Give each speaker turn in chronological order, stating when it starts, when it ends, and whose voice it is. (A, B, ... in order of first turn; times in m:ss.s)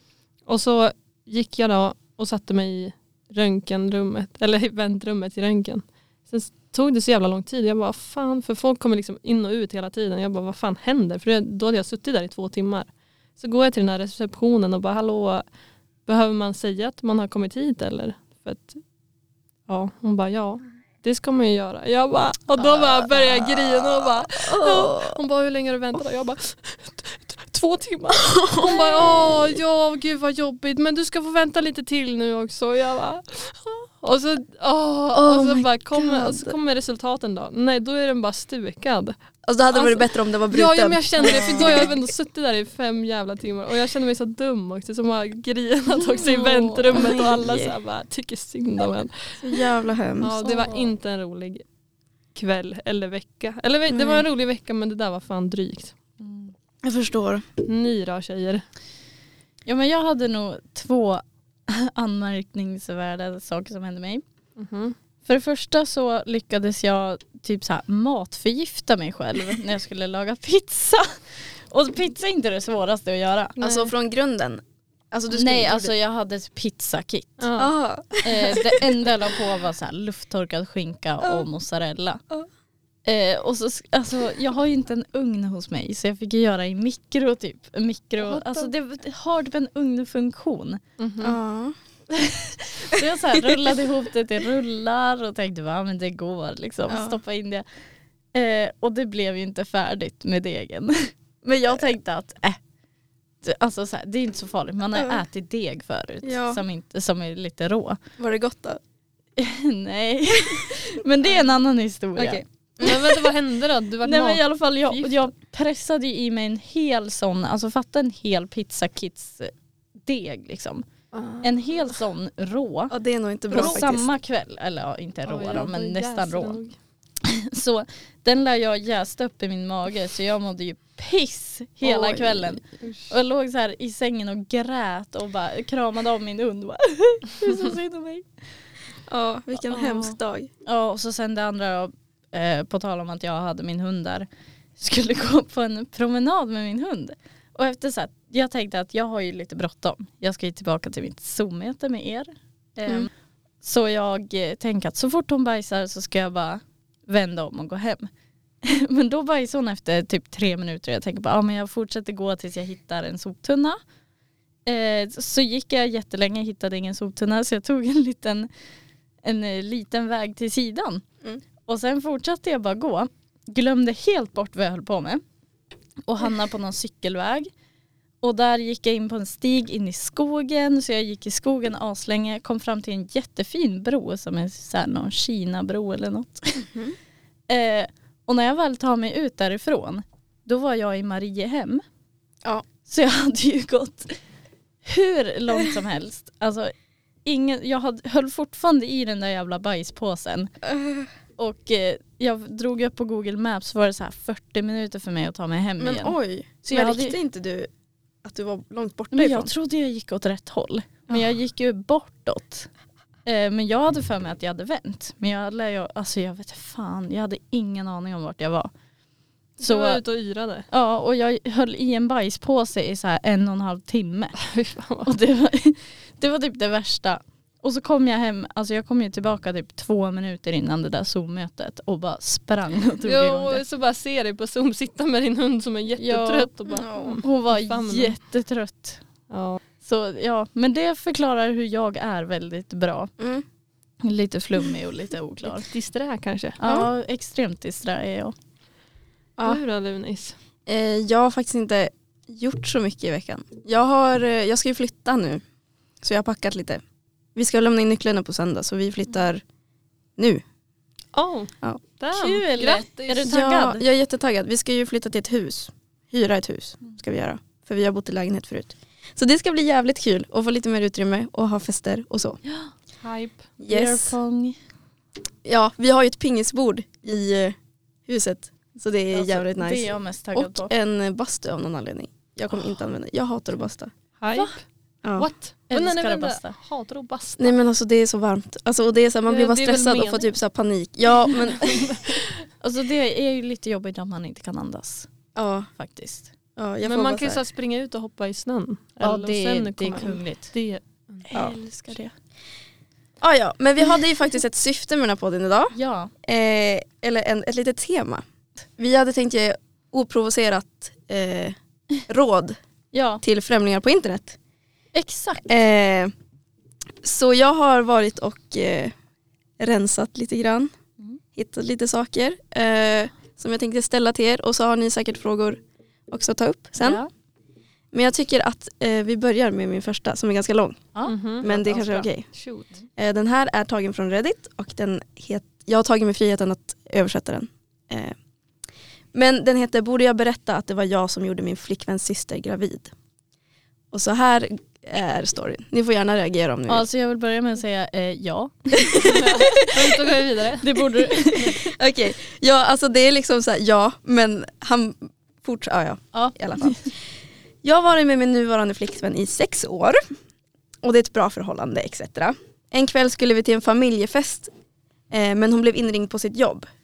0:00.5-0:15.4 A
0:16.0-0:18.8 A
0:19.7-0:39.2 A
0:23.4-0:25.2 B
0:28.2-0:28.8 B
0:35.1-0:36.6 B
0:39.4-0:41.9 B
0:39.7-0:49.6 A
0:46.0-0:47.0 C
0:46.9-0:47.7 B
0:49.4-0:50.4 B
0:50.2-0:51.6 A
0:50.4-0:50.9 C
0:52.3-0:55.9 A
0:56.2-0:56.5 C
0:56.8-0:57.4 B
0:57.6-0:58.6 A
0:59.6-1:04.2 C
1:04.6-1:05.0 A
1:05.2-1:11.1 C
1:11.7-1:13.6 C
1:13.6-1:13.9 A
1:13.6-1:15.9 B
1:15.3-1:17.5 C
1:17.4-1:17.7 A
1:17.6-1:18.9 B
1:18.2-1:22.2 C
1:23.0-1:30.8 C
1:28.2-1:28.7 A
1:31.0-1:31.4 A
1:31.2-1:31.7 B
1:32.1-1:37.6 C
1:36.9-1:37.2 B
1:38.3-1:42.6 C
1:43.4-1:48.0 C
1:46.2-1:46.6 B
1:48.2-1:48.8 B
1:49.4-1:52.4 C
1:52.2-1:53.0 B
1:52.8-1:55.3 A
1:54.0-2:00.8 C
2:01.1-2:01.4 A
2:01.4-2:02.9 C
2:02.9-2:04.0 B
2:03.5-2:06.6 C
2:05.2-2:06.7 A
2:07.2-2:18.3 C
2:11.9-2:12.2 B
2:12.7-2:13.1 A
2:19.1-2:20.5 B
2:19.6-2:33.1 C
2:33.6-2:38.1 C
2:38.6-2:43.8 C
2:44.6-2:48.5 C
2:49.2-2:51.0 C
2:51.6-2:55.2 C
2:56.0-2:57.5 C
2:58.2-3:06.6 C
3:06.6-3:07.0 B
3:07.5-3:11.8 C
3:12.8-3:14.2 C
3:14.8-3:16.7 C
3:17.2-3:20.5 C
3:20.6-3:21.1 B
3:21.4-3:26.1 C
3:25.8-3:27.7 B
3:26.6-3:27.2 C
3:28.2-3:29.5 B
3:29.1-3:32.7 C
3:33.2-3:38.7 C
3:39.6-3:40.6 A
3:39.6-3:40.0 C
3:40.7-3:44.3 C
3:44.4-3:45.1 A
3:45.0-3:53.6 C
3:53.0-3:58.2 A
3:56.0-3:56.5 C
3:56.7-3:57.2 B
3:57.2-3:59.0 C
3:59.3-3:59.6 A
3:59.8-4:03.1 C
4:03.2-4:03.4 B
4:04.0-4:05.7 C
4:05.4-4:06.6 A
4:06.6-4:08.3 C
4:06.6-4:06.9 B
4:09.4-4:10.4 A
4:10.7-4:15.4 B
4:16.0-4:16.8 B
4:17.3-4:19.4 B
4:20.2-4:20.4 B
4:21.1-4:23.4 A
4:22.1-4:23.8 C
4:23.3-4:32.4 B
4:32.4-4:32.7 C
4:33.0-4:33.5 A
4:33.6-4:34.1 B
4:33.7-4:34.6 C
4:35.4-4:37.5 B
4:38.1-4:43.9 B
4:39.1-4:40.7 C
4:44.2-4:44.6 A
4:45.0-4:45.3 B
4:45.2-4:47.6 A
4:45.7-4:46.5 C
4:47.4-4:52.2 B
4:49.3-4:50.2 A
4:51.5-4:52.4 A
4:52.6-4:55.1 C
4:55.3-4:55.7 B
4:55.8-4:56.3 C
4:56.6-4:57.4 B
4:56.8-5:01.2 A
4:59.0-5:00.5 C
5:01.3-5:02.1 C
5:01.3-5:01.6 B
5:03.2-5:08.2 B
5:05.7-5:06.1 C
5:08.8-5:11.5 B
5:12.1-5:12.6 B
5:12.9-5:13.2 C
5:13.2-5:14.4 B
5:14.9-5:15.4 C
5:15.5-5:16.1 B
5:17.0-5:18.9 B
5:19.6-5:20.7 B
5:21.3-5:27.0 B
5:26.8-5:27.1 C
5:27.9-5:30.8 B
5:30.9-5:32.1 C
5:31.0-5:31.5 A
5:31.4-5:32.3 B
5:32.3-5:32.7 A
5:33.0-5:38.1 B
5:39.1-5:42.9 B
5:43.9-5:46.8 B
5:46.7-5:49.9 C
5:48.9-5:50.8 A
5:50.6-5:51.6 C
5:51.3-5:56.9 B
5:56.1-5:56.9 C
5:57.6-6:00.0 B
6:00.8-6:04.5 B
6:05.1-6:06.6 B